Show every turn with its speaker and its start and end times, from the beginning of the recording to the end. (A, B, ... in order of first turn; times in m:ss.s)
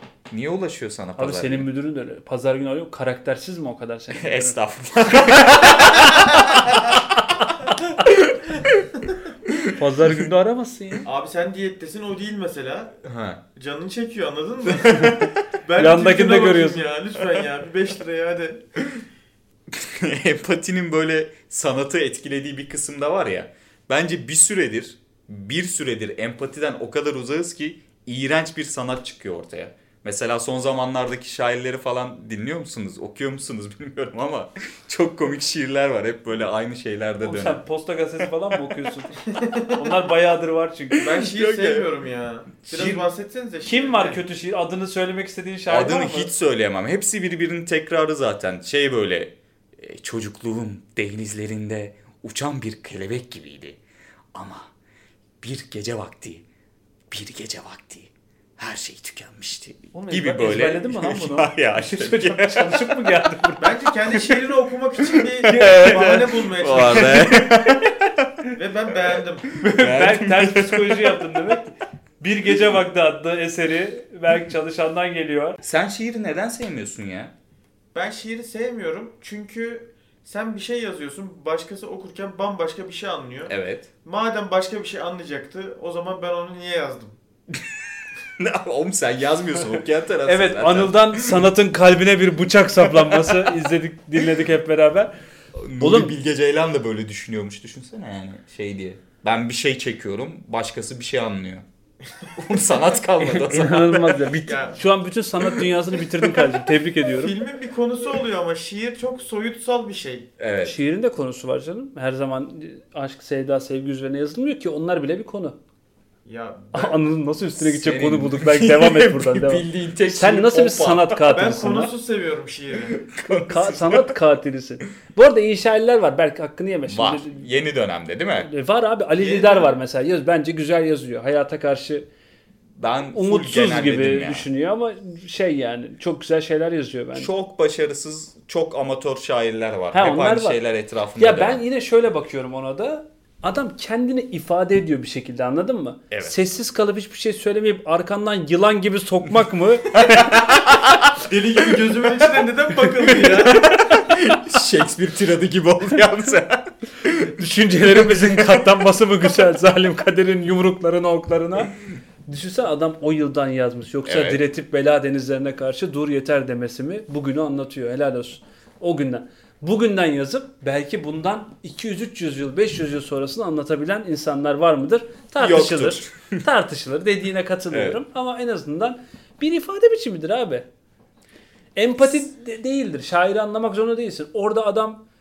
0:00.3-0:01.7 A
0:01.2-0:04.6 B
0:04.1-0:07.0 A
0:08.0-0:08.8 A
0:09.8-0:11.1 B
0:11.0-0:13.0 C
0:13.0-0:13.4 A
0:13.5-0:18.6 C
0:14.7-0:15.3 A
0:15.8-0:16.8 B
0:19.7-0:37.6 A
0:37.2-0:39.2 B
0:39.3-0:39.8 C
0:39.7-0:41.1 B
0:40.9-0:41.9 A
0:41.0-0:44.2 C
0:42.7-0:43.0 B
0:43.6-0:46.3 B
0:45.7-0:53.8 A
0:54.3-0:54.7 A
0:55.4-0:56.4 A
0:57.1-1:02.9 A
0:59.9-1:04.3 B
1:03.6-1:07.4 C
1:05.4-1:06.2 B
1:05.4-1:08.2 A
1:07.0-1:07.9 B
1:08.5-1:09.5 C
1:09.6-1:15.6 B
1:09.7-1:11.2 A
1:15.6-1:17.3 A
1:17.9-1:27.2 C
1:23.5-1:23.9 A
1:28.4-1:31.4 A
1:30.2-1:35.1 B
1:33.0-1:33.5 A
1:35.5-1:41.6 A
1:35.8-1:36.1 B
1:42.3-1:44.2 A
1:43.4-1:47.3 B
1:44.3-1:44.8 C
1:47.1-1:50.3 C
1:50.4-1:50.8 A
1:50.6-1:55.6 B
1:56.2-1:57.0 C
1:56.7-2:01.9 B
1:57.6-2:01.2 A
2:01.2-2:03.0 C
2:02.9-2:04.1 A
2:03.5-2:07.4 B
2:06.9-2:08.5 A
2:08.4-2:12.0 B
2:09.2-2:09.7 C
2:12.8-2:14.5 A
2:13.1-2:17.3 B
2:17.1-2:21.6 A
2:19.9-2:20.6 B
2:21.2-2:30.4 B
2:26.1-2:26.4 A
2:31.2-2:33.6 C
2:33.1-2:37.4 A
2:37.4-2:41.7 B
2:37.9-2:38.6 A
2:42.3-3:00.6 B
2:44.0-2:44.4 A
2:55.4-2:56.4 A
2:57.7-2:58.0 A
3:01.8-3:05.0 B